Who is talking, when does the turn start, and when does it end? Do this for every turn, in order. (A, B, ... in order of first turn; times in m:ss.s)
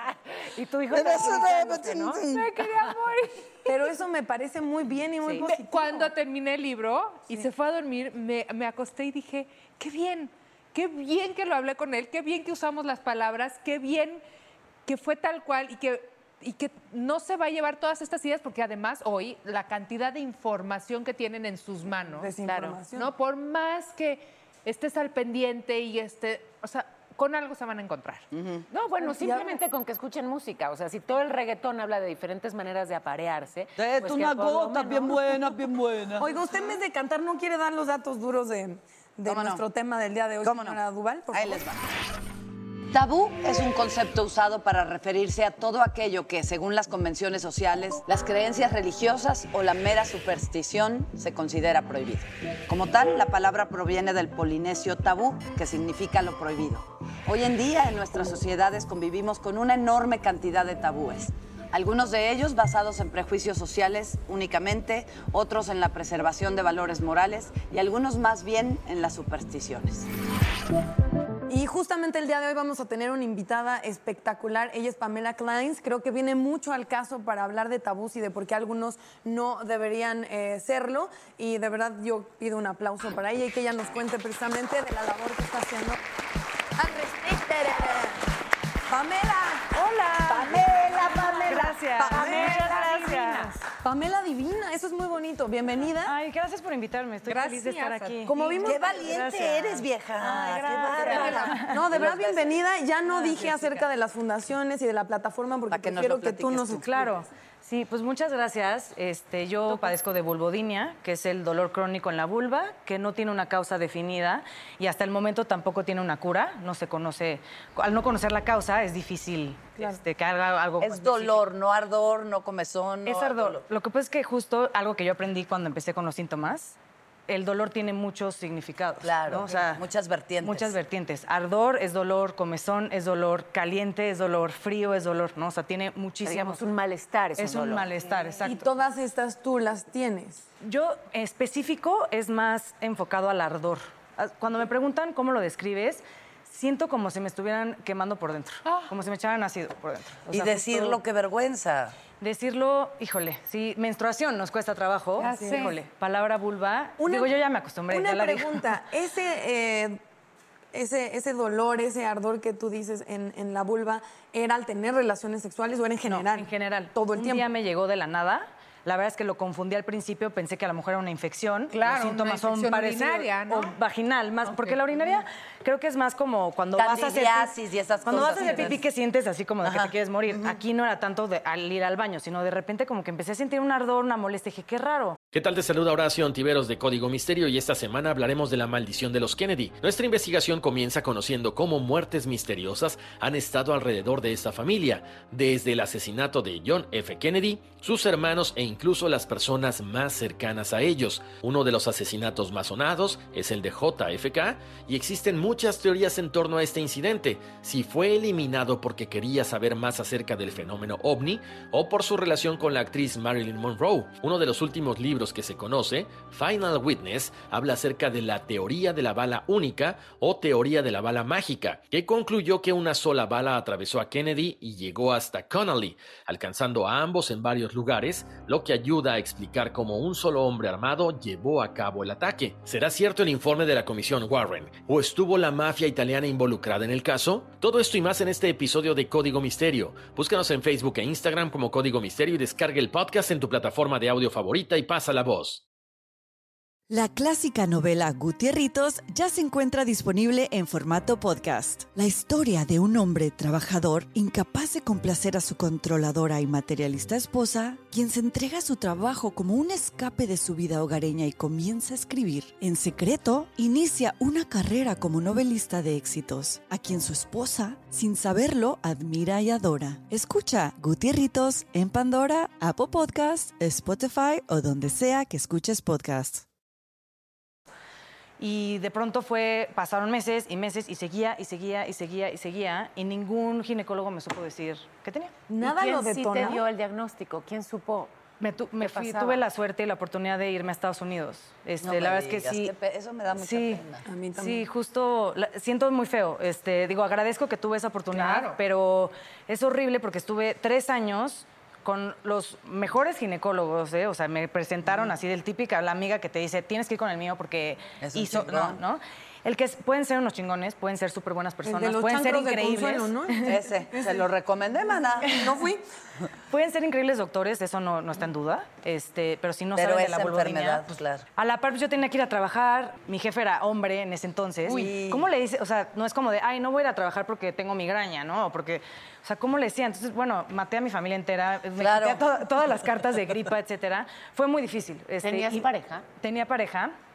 0:00.4-0:02.3 A
0:00.9-0:02.5 B
0:02.2-0:03.8 C
0:03.7-0:06.1 D
0:05.4-0:14.2 C
0:14.9-0:22.3 C
0:22.2-0:23.1 D
0:22.5-0:22.8 A
0:22.9-0:28.3 C
0:28.3-0:28.7 B
0:28.7-0:35.4 A
0:29.2-0:29.6 D
0:33.8-0:36.3 B
0:36.2-0:41.6 D
0:39.2-0:39.6 B
0:40.4-0:40.8 B
0:41.3-0:41.8 B
0:42.9-1:10.1 B
1:11.5-1:26.0 D
1:26.8-1:28.0 D
1:27.6-1:27.9 B
1:28.9-1:29.8 D
1:29.8-1:30.7 E
1:30.3-1:33.1 B
1:30.4-1:32.5 D
1:31.2-1:31.8 C
1:31.5-1:33.5 E
1:32.1-1:33.5 A
1:33.8-1:36.2 D
1:36.0-1:41.8 E
1:37.2-1:38.8 C
1:38.3-1:38.9 D
1:38.6-1:42.6 B
1:41.0-1:41.6 C
1:41.2-1:47.0 D
1:43.1-1:43.9 C
1:45.7-1:46.9 B
1:46.8-2:01.4 E
2:00.8-2:03.6 B
2:03.1-2:06.8 E
2:07.3-2:09.8 E
2:09.0-2:10.7 B
2:10.4-2:16.6 E
2:16.2-2:17.9 A
2:17.4-2:18.6 E
2:18.4-2:20.4 D
2:20.6-2:31.0 E
2:28.6-2:29.0 C
2:30.3-2:32.0 B
2:32.2-2:38.6 E
2:35.2-2:35.8 C
2:37.0-2:40.0 D
2:40.7-2:47.5 D
2:46.1-3:05.2 E
2:51.7-2:53.7 C
2:54.5-2:54.8 C
2:56.8-2:58.8 B
2:58.2-2:58.7 C
2:59.6-3:00.6 B
3:05.3-4:05.6 F
4:06.9-4:36.4 G
4:38.4-4:45.3 E
4:45.5-4:46.6 D
4:45.6-4:48.1 A
4:48.4-4:52.7 E
4:48.8-4:49.5 A
4:51.8-4:54.1 B
4:53.4-4:53.8 E
4:54.1-4:54.7 D
4:54.4-5:13.3 E
4:58.1-4:58.6 C
5:08.0-5:08.8 B
5:11.6-5:14.3 D
5:13.4-5:15.5 B
5:15.2-5:15.8 D
5:16.5-5:37.0 E
5:19.8-5:21.2 B
5:24.6-5:25.3 B
5:31.8-5:32.4 B
5:35.2-5:36.1 A